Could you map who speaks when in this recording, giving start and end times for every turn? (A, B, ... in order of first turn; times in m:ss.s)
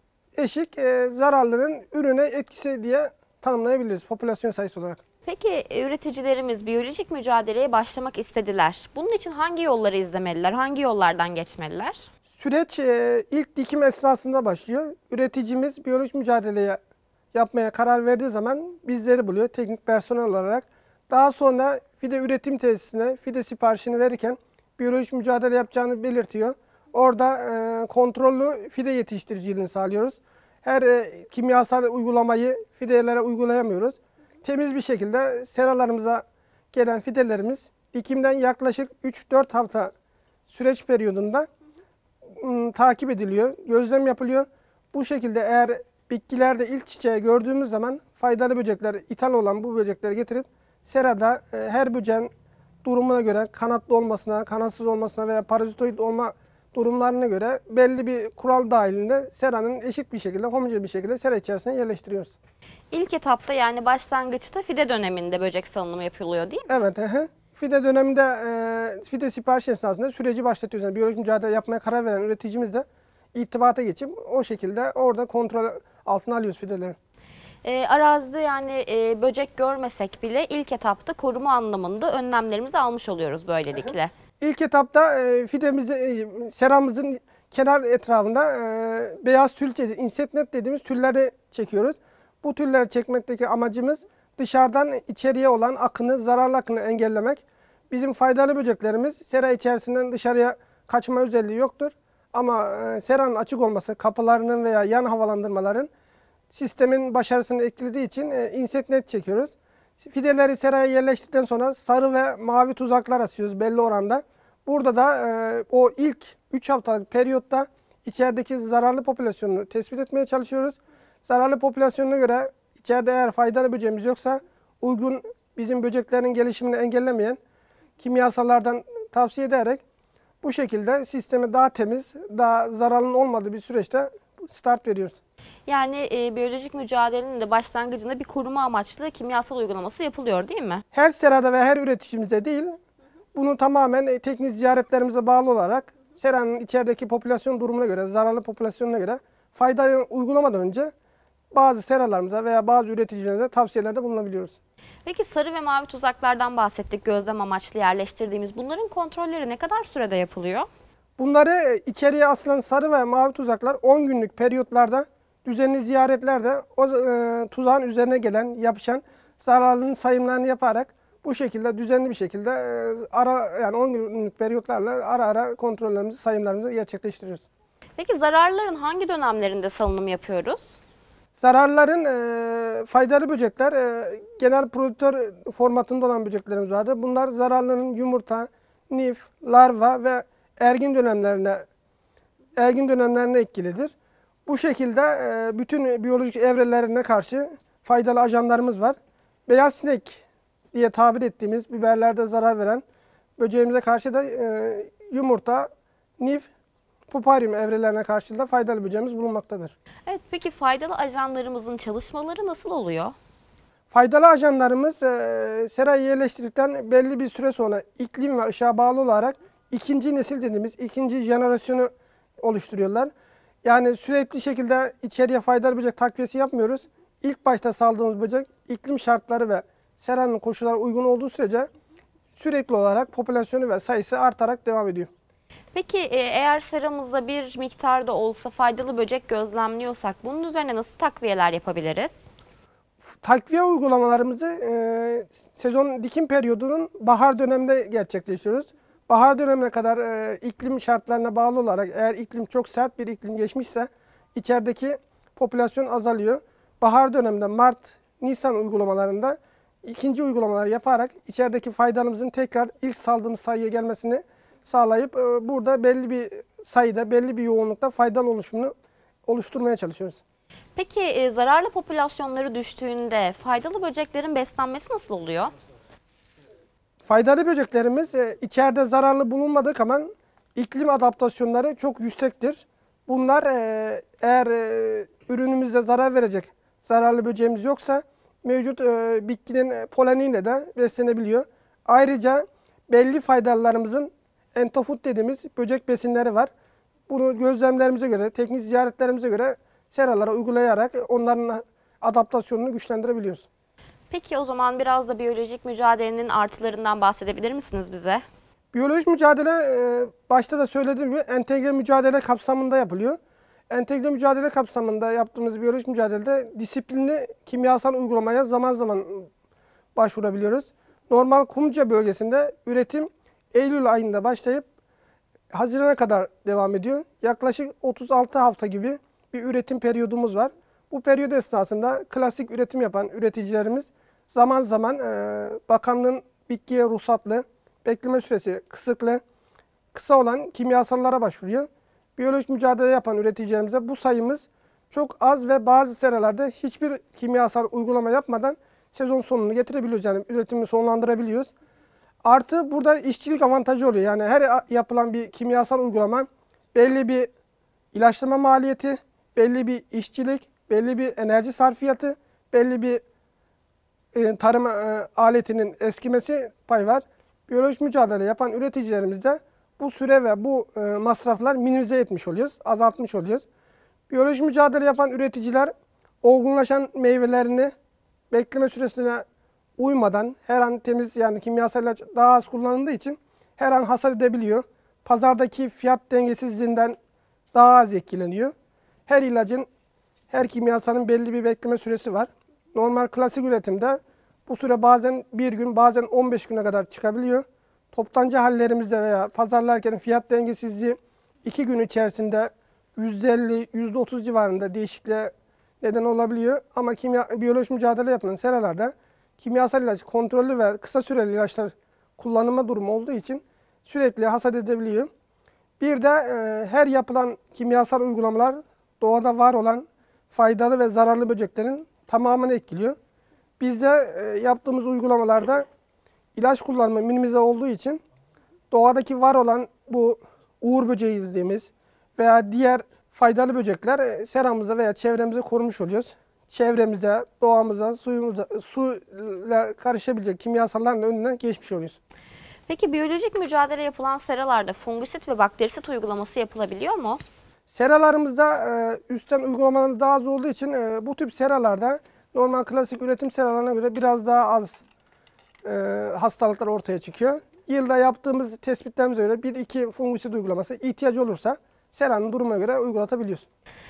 0:00.4-0:05.0 A
0:05.2-0:12.0 B
0:12.4-0:16.8 A
0:17.3-0:39.9 A
0:40.5-0:41.5 A
0:42.4-0:52.3 A
0:52.8-1:02.3 A
1:02.9-1:06.7 B
1:06.7-1:17.0 A
1:17.6-1:24.1 B
1:24.4-1:45.9 A
1:46.5-2:07.4 A
2:08.0-2:09.8 A
2:10.4-2:15.2 A
2:15.7-2:20.8 B
2:20.9-2:22.8 A
2:23.3-2:30.9 A
2:31.5-2:34.5 A
2:35.0-2:40.7 B
2:41.2-2:57.4 A
2:58.0-3:00.8 B
3:01.4-3:11.6 A
3:12.6-3:13.9 A
3:14.5-3:22.8 A
3:23.4-3:26.5 A
3:27.1-3:29.7 A
3:30.1-3:33.1 B
3:33.9-3:43.1 A
3:43.6-3:51.7 A
3:52.4-3:55.1 A
3:55.7-4:02.1 B
4:03.2-4:28.7 A
4:29.2-4:30.2 A
4:30.8-4:35.5 B
4:37.0-4:56.5 A
4:57.1-5:03.4 A
5:04.1-5:08.2 B
5:08.7-5:13.2 A
5:13.7-5:19.3 A
5:20.0-5:24.6 A
5:25.5-5:39.2 A
5:39.9-5:51.5 A
5:52.2-5:57.3 A
5:57.9-6:03.0 A
6:04.1-6:13.4 A
6:14.1-6:15.7 A
6:16.2-6:17.7 A
6:18.3-6:19.2 A
6:19.8-6:27.0 A
6:27.5-6:28.5 A
6:29.1-6:29.7 A
6:30.3-6:55.1 A
6:55.8-7:03.0 A
7:03.6-7:05.7 A
7:06.3-7:08.0 A
7:08.7-7:22.0 A
7:22.7-7:27.2 B
7:27.7-7:34.8 A
7:35.6-7:43.4 A